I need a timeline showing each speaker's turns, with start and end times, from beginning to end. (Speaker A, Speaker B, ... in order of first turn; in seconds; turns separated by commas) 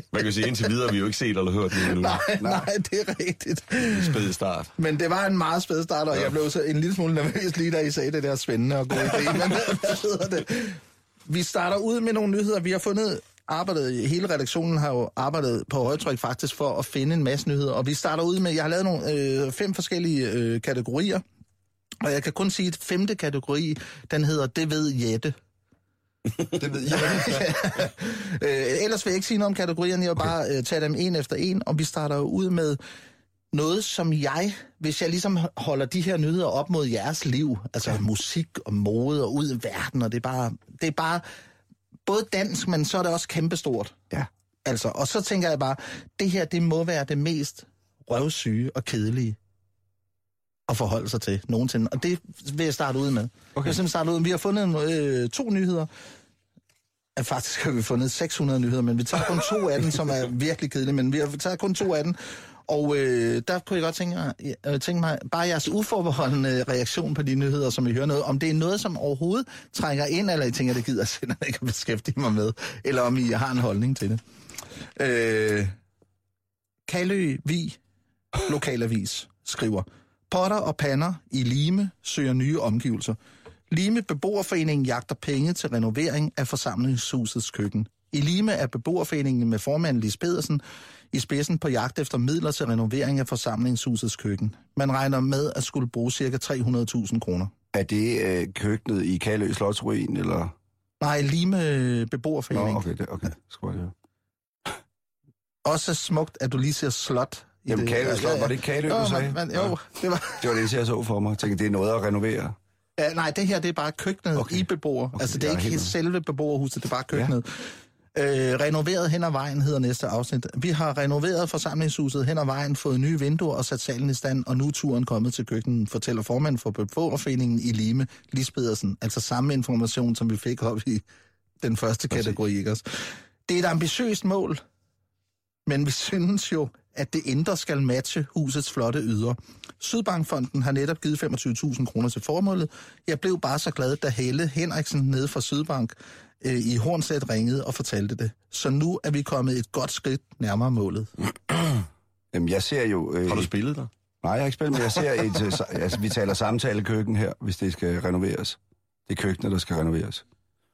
Speaker A: 0.1-2.2, Speaker B: 1.8-4.1, Speaker C: 2.4-2.7, Speaker A: 3.8-4.7, Speaker B: 4.8-21.2, Speaker B: 22.0-25.4, Speaker C: 26.6-27.4, Speaker B: 26.9-32.8, Speaker B: 33.5-41.3, Speaker B: 42.1-44.0, Speaker B: 44.6-49.4, Speaker B: 50.7-55.9, Speaker B: 57.2-74.2, Speaker B: 75.0-75.8, Speaker B: 76.9-77.8, Speaker B: 78.5-83.2, Speaker B: 83.7-97.5, Speaker C: 97.7-100.5, Speaker B: 101.0-102.9, Speaker C: 102.5-103.9, Speaker B: 105.7-110.6, Speaker C: 107.7-109.8, Speaker C: 110.4-112.6, Speaker B: 113.0-131.0, Speaker C: 114.4-115.9, Speaker B: 131.6-134.6, Speaker B: 135.7-151.1, Speaker C: 152.3-153.5, Speaker A: 153.3-153.9, Speaker C: 154.2-160.2